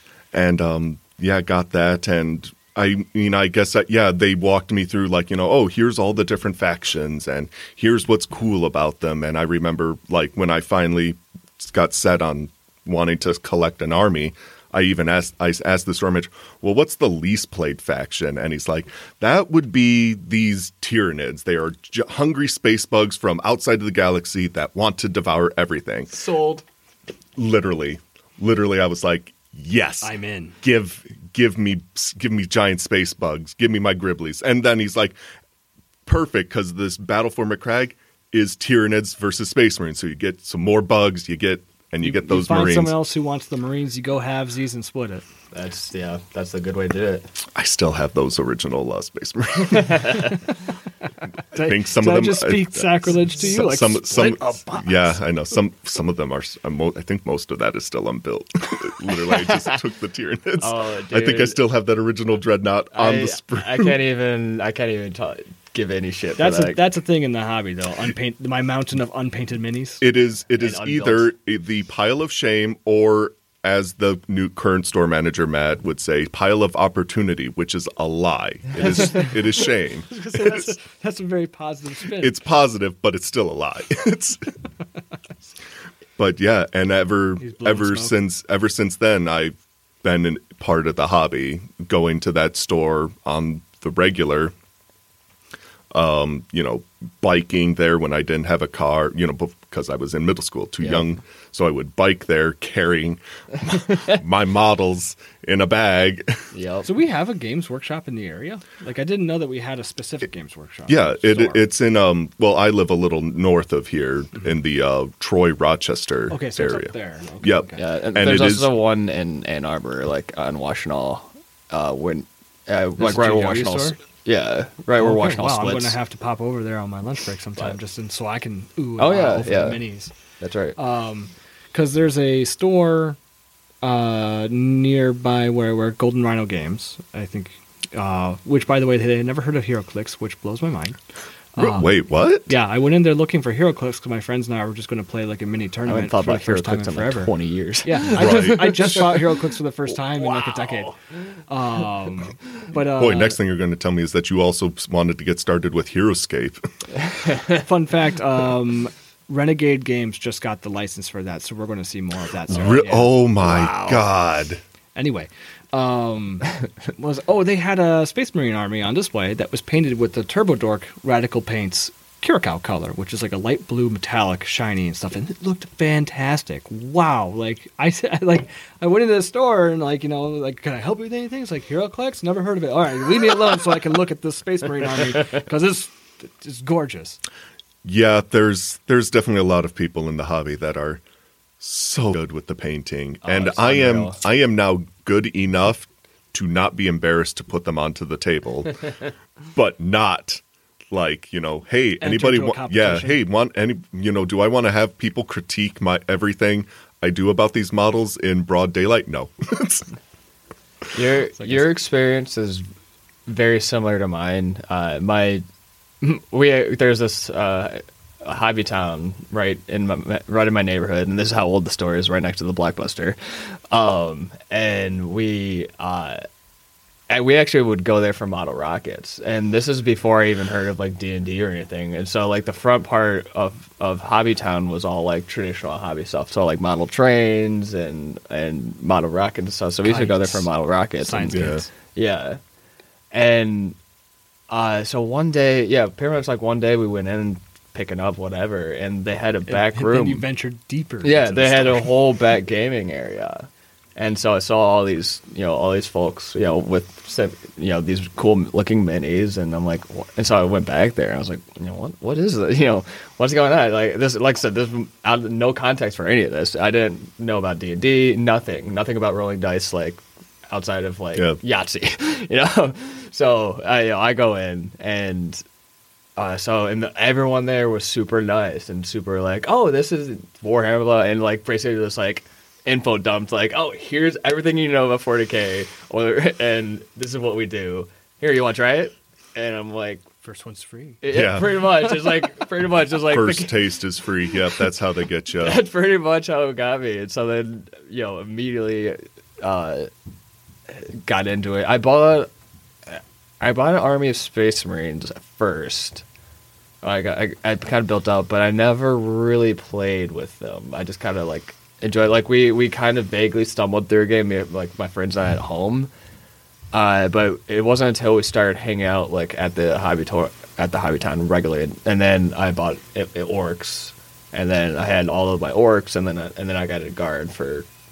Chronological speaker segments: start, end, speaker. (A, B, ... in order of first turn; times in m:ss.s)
0:00.3-0:26.2 A
0:26.2-0:26.6 B
0:27.4-0:35.2 A
0:30.0-0:30.6 C
0:36.0-0:43.0 A
0:42.0-0:45.2 C
0:45.5-0:47.3 B
0:47.5-0:50.4 A
0:49.8-0:50.0 B
0:51.5-0:55.2 C
0:51.5-1:04.0 A
0:59.3-0:59.7 B
1:00.6-1:01.6 B
1:02.9-1:06.8 B
1:06.4-1:10.0 C
1:10.0-1:20.7 A
1:10.6-1:11.3 B
1:20.1-1:22.4 C
1:22.2-1:24.4 A
1:26.2-1:34.5 A
1:27.4-1:28.2 C
1:35.9-1:46.5 A
1:46.5-1:46.9 B
1:46.8-1:51.6 C
1:50.9-1:58.7 A
1:56.3-1:57.8 C
1:57.8-2:06.0 B
2:03.0-2:04.0 C
2:05.0-2:10.1 C
2:09.0-2:09.8 B
2:10.4-2:10.8 B
2:10.8-2:13.2 C
2:13.8-2:21.0 C
2:21.6-2:27.3 C
2:21.6-2:22.5 A
2:25.8-2:29.2 B
2:27.8-2:30.9 C
2:28.1-2:28.7 A
2:30.1-2:30.9 B
2:31.5-2:33.4 C
2:32.9-2:36.6 A
2:37.5-2:43.1 C
2:42.5-2:44.6 A
2:43.4-2:44.0 B
2:44.9-3:07.2 C
3:07.8-3:11.0 A
3:11.6-3:29.9 A
3:13.2-3:14.2 B
3:22.0-3:23.2 C
3:30.9-3:32.6 B
3:31.4-3:31.7 C
3:33.2-3:35.4 B
3:36.0-3:46.2 B
3:47.1-4:02.4 B
3:59.8-4:00.5 C
4:01.0-4:01.7 C
4:01.3-4:01.6 A
4:03.1-4:03.8 B
4:04.5-4:10.2 B
4:09.5-4:12.0 C
4:11.0-4:35.4 B
4:36.2-4:50.0 B
4:50.2-4:51.0 C
4:51.0-4:53.6 B
4:51.1-4:52.0 A
4:52.9-4:55.6 A
4:55.4-4:59.9 B
5:00.7-5:02.3 B
5:02.9-5:06.0 B
5:06.8-5:15.9 B
5:16.7-5:27.7 B